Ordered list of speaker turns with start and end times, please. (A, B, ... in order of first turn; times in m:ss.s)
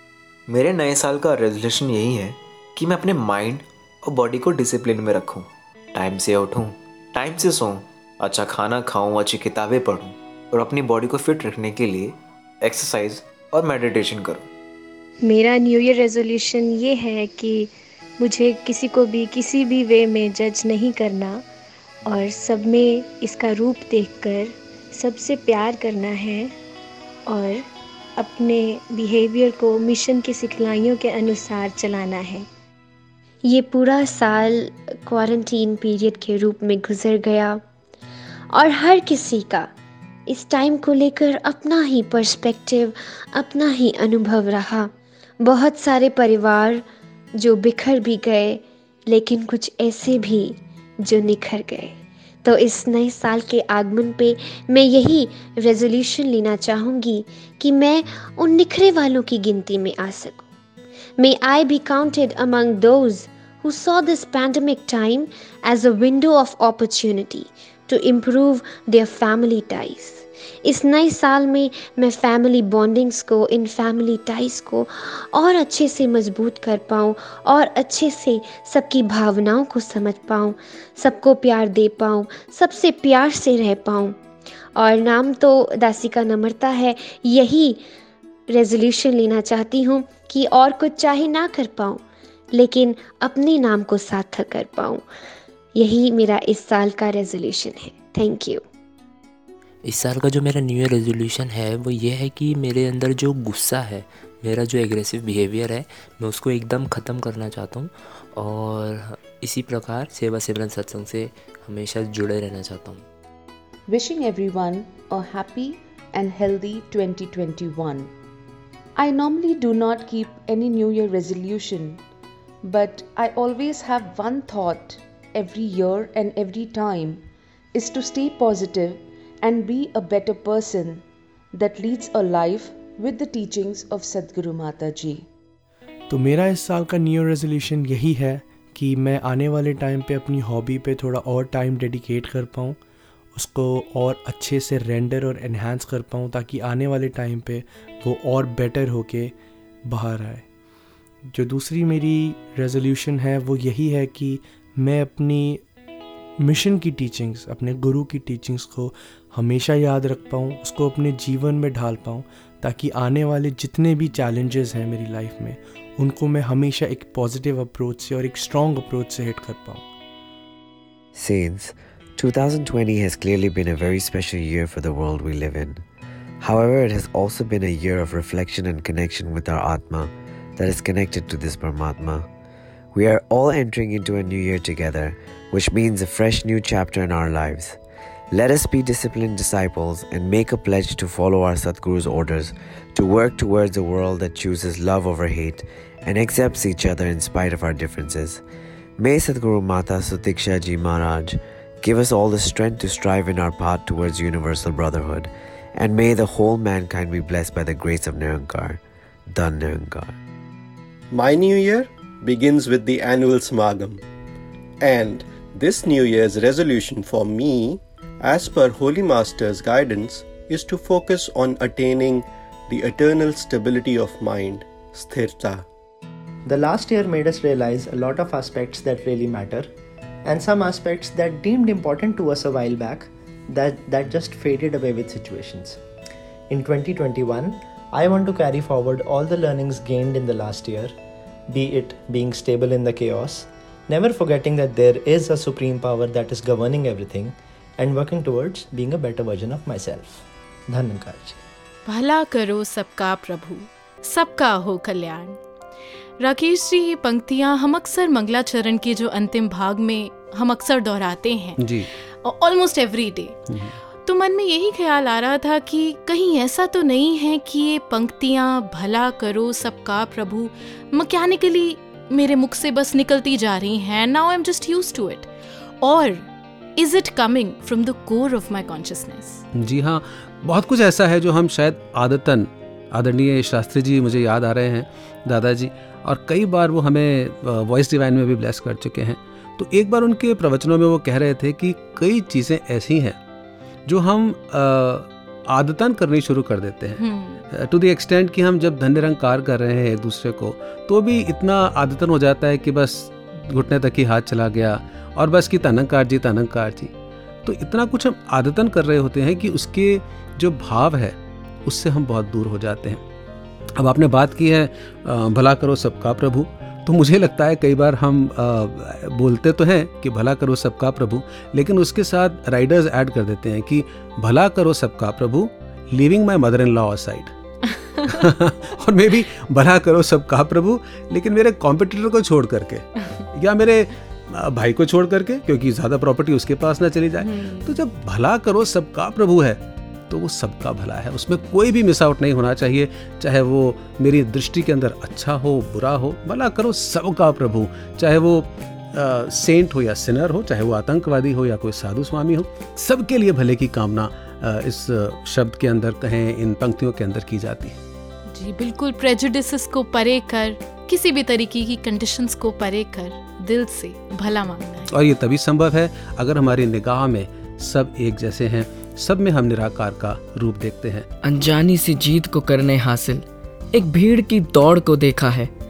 0:00.5-0:14.5 A
0:15.2-0:21.4 B
0:22.1-0:26.5 B
0:27.3-0:27.6 B
0:28.2-0:32.5 B
0:33.4-0:37.6 C
0:38.5-0:39.7 C
0:40.3-0:44.9 C
0:45.4-0:46.8 C
0:47.4-1:00.5 C
1:01.2-1:24.2 C
1:24.8-1:27.8 C
1:28.5-1:32.0 C
1:32.5-1:35.1 C
1:35.8-1:38.6 C
1:39.8-1:53.1 D
1:53.9-1:58.1 E
1:59.0-2:02.0 E
2:02.6-2:15.3 E
2:16.1-2:22.8 F
2:23.4-2:29.3 F
2:29.8-2:30.4 F
2:31.3-2:35.6 F
2:36.4-2:49.9 F
2:51.2-2:55.8 G
2:56.4-3:02.3 G
3:02.9-3:07.8 G
3:08.3-3:18.4 G
3:19.0-3:28.8 G
3:29.3-3:30.2 G
3:31.1-3:34.0 H
3:34.8-3:45.6 H
3:46.4-3:55.8 I
3:56.5-4:11.4 I
4:11.9-4:15.4 J
4:16.2-4:23.4 J
4:21.6-4:21.9 K
4:23.5-4:23.8 K
4:24.0-4:35.3 J
4:35.8-4:39.4 J
4:39.5-4:53.2 K
4:53.9-5:06.9 K
4:57.0-4:57.4 J
5:07.4-5:13.0 K
5:13.8-5:27.3 K
5:28.1-5:57.8 K
5:37.3-5:37.7 J
5:58.3-6:04.9 J
6:04.9-6:11.1 K
6:11.2-6:15.5 L